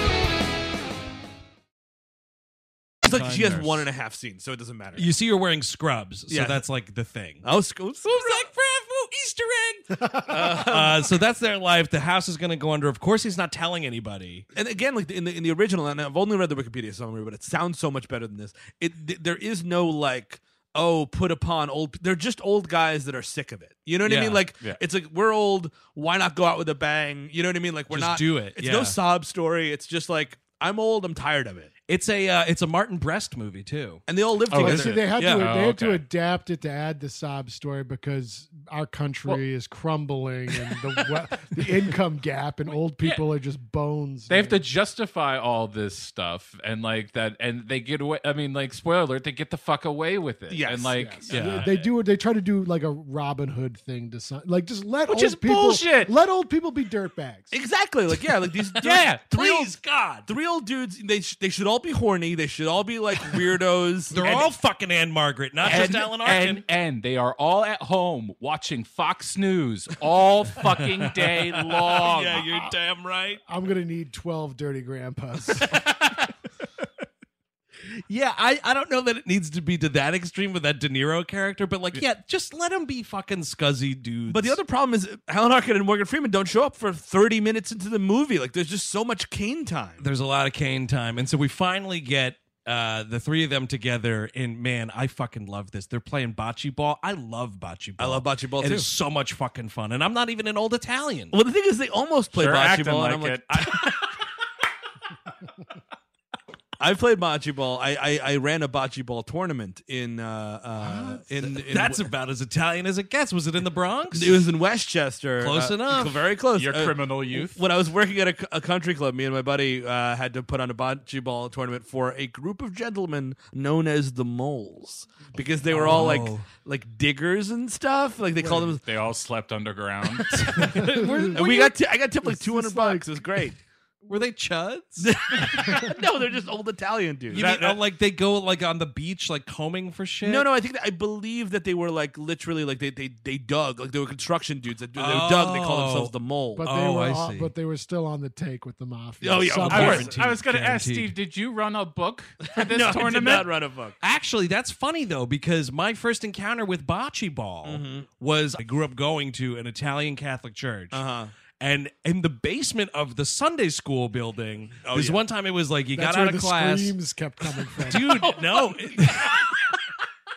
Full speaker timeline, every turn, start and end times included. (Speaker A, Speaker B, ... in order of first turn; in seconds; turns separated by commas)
Speaker A: 3.0-5.1, Speaker B: 3.0-3.9, Speaker B: 5.0-7.5, Speaker A: 6.3-6.7, Speaker A: 7.4-8.4, Speaker B: 8.0-14.5, Speaker A: 10.2-11.2, Speaker A: 14.5-31.7, Speaker B: 24.0-24.5, Speaker B: 27.9-29.0, Speaker B: 31.9-34.0, Speaker A: 34.1-35.1, Speaker C: 34.5-36.0, Speaker D: 34.6-44.6, Speaker B: 35.1-35.5, Speaker C: 44.3-51.9, Speaker A: 50.5-50.9, Speaker D: 51.0-57.5, Speaker B: 51.3-51.7, Speaker C: 55.1-56.1, Speaker A: 57.5-64.5, Speaker C: 58.8-59.2, Speaker B: 59.3-60.3, Speaker B: 64.1-66.6, Speaker C: 65.6-72.5, Speaker B: 71.2-73.4, Speaker D: 73.5-75.8, Speaker B: 78.1-84.6, Speaker A: 84.3-90.1, Speaker B: 90.0-101.3, Speaker A: 98.0-98.9, Speaker A: 101.3-104.1, Speaker C: 102.3-103.8, Speaker A: 106.8-112.1, Speaker B: 110.8-114.5, Speaker A: 114.1-128.8, Speaker B: 115.4-116.3, Speaker C: 116.5-117.7, Speaker B: 125.7-126.5, Speaker C: 128.8-130.7, Speaker B: 130.3-131.7, Speaker D: 130.6-131.7, Speaker A: 131.3-133.6, Speaker D: 132.2-133.1, Speaker B: 134.1-135.1, Speaker A: 135.0-137.8, Speaker B: 137.3-140.5, Speaker C: 137.3-137.7, Speaker A: 140.2-146.7, Speaker B: 144.9-147.5, Speaker D: 146.6-150.1, Speaker A: 149.2-150.2, Speaker B: 149.5-151.1, Speaker C: 149.7-153.5, Speaker A: 152.6-154.0, Speaker B: 154.0-161.0, Speaker A: 157.6-158.1, Speaker A: 160.9-161.3, Speaker B: 161.6-167.0, Speaker A: 164.8-165.2, Speaker D: 165.9-168.3, Speaker B: 167.8-169.5, Speaker C: 168.4-169.4